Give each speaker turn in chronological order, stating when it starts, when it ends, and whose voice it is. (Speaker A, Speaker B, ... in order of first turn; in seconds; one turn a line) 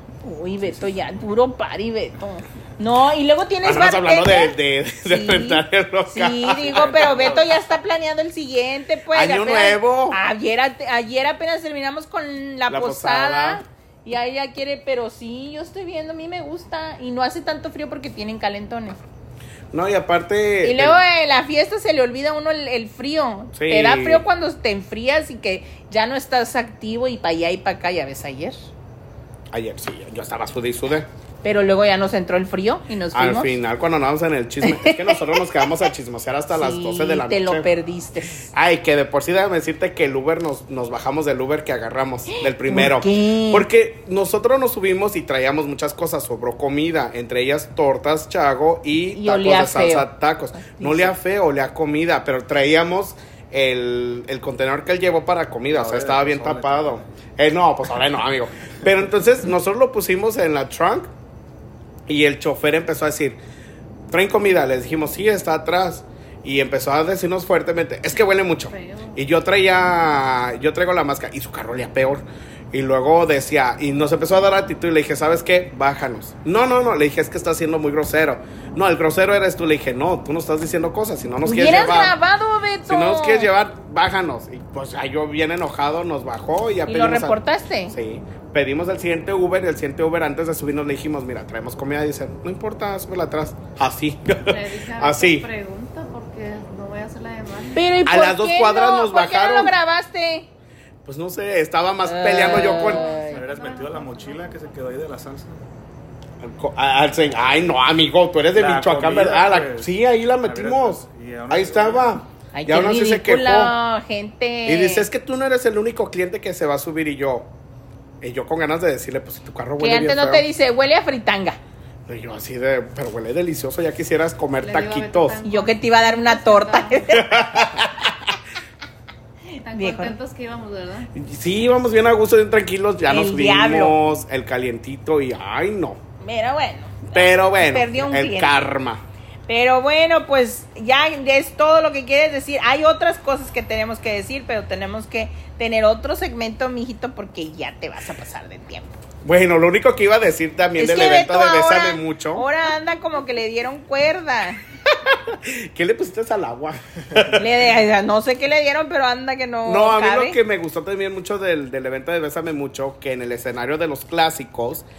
Speaker A: 0.2-19.0
Speaker B: 0.7-1.2
Speaker C: 3.6-7.2
Speaker B: 6.7-7.6
Speaker C: 9.1-10.2
Speaker C: 12.7-13.6
Speaker C: 19.7-21.0
Speaker A: 20.6-28.7
Speaker C: 23.5-24.2
Speaker C: 29.5-31.1
Speaker A: 31.4-33.5
Speaker C: 33.1-37.7
Speaker A: 34.6-35.8
Speaker A: 36.5-38.5
Speaker C: 38.4-61.1
Speaker A: 42.3-43.7
Speaker A: 49.1-51.1
Speaker B: 55.7-57.3
Speaker C: 62.1-63.4
Speaker C: 64.1-82.2
Speaker D: 68.6-69.2
Speaker A: 81.4-83.5
Speaker C: 82.9-95.5
Speaker A: 86.8-87.9
Speaker D: 94.5-97.9
Speaker A: 97.7-100.5
Speaker C: 98.0-99.8
Speaker C: 101.0-103.0
Speaker A: 102.0-103.4
Speaker D: 102.5-104.7
Speaker B: 103.2-105.6
Speaker C: 106.4-113.7
Speaker B: 108.5-112.1
Speaker A: 112.5-115.0
Speaker C: 114.7-117.5
Speaker C: 118.2-120.4
Speaker A: 119.8-121.6
Speaker C: 122.1-125.4
Speaker D: 124.6-127.2
Speaker A: 125.4-127.7
Speaker C: 127.1-128.3
Speaker D: 129.6-131.1
Speaker A: 129.7-130.2
Speaker C: 131.1-136.0
Speaker A: 133.1-134.0
Speaker A: 136.2-138.7
Speaker C: 137.1-139.0
Speaker A: 139.5-148.9
Speaker C: 149.2-152.4
Speaker A: 150.8-154.6
Speaker C: 154.9-157.6
Speaker A: 157.3-160.4
Speaker C: 159.7-164.8